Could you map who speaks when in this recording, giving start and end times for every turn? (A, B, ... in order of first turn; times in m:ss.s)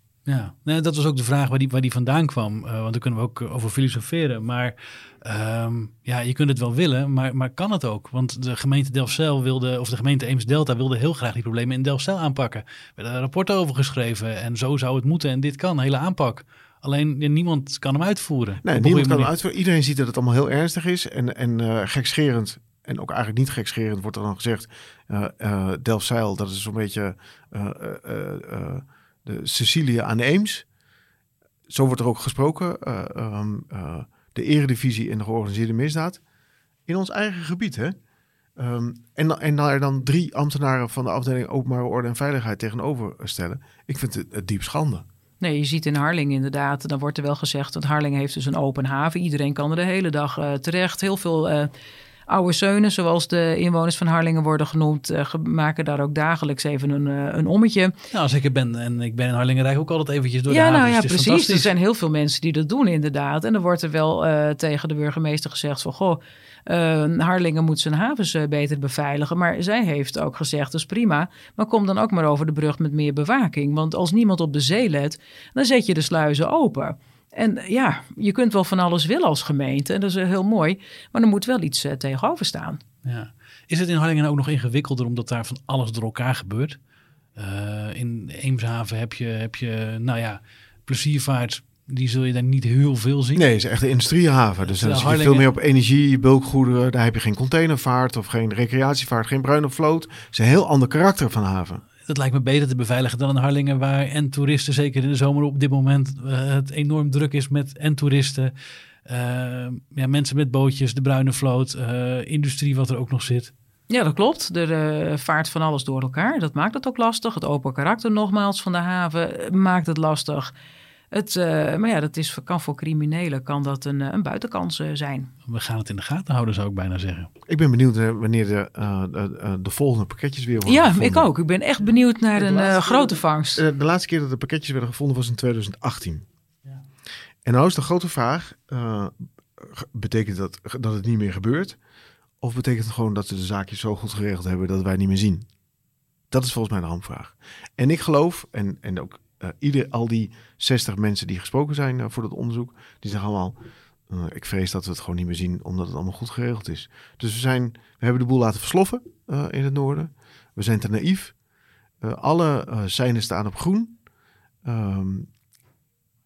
0:00.2-0:19.3 A
0:18.6-0:30.6 B
0:31.7-0:36.2 B
0:36.9-0:37.9 B
0:38.6-0:45.1 B
0:45.4-0:51.7 C
0:52.3-0:57.9 C
0:58.1-1:01.7 A
1:00.5-1:22.8 C
1:23.0-1:26.8 A
1:27.4-1:33.4 A
1:33.4-1:41.8 B
1:34.7-1:35.5 A
1:42.0-1:48.5 A
1:49.1-1:53.5 A
1:53.9-2:00.5 C
2:01.1-2:05.3 C
2:05.5-2:07.3 A
2:07.5-2:11.3 B
2:10.6-2:13.6 C
2:12.4-2:16.2 B
2:17.4-2:21.8 B
2:22.4-2:25.5 B
2:26.3-2:33.6 B
2:34.1-2:41.3 B
2:42.0-2:44.0 B
2:44.6-2:45.3 B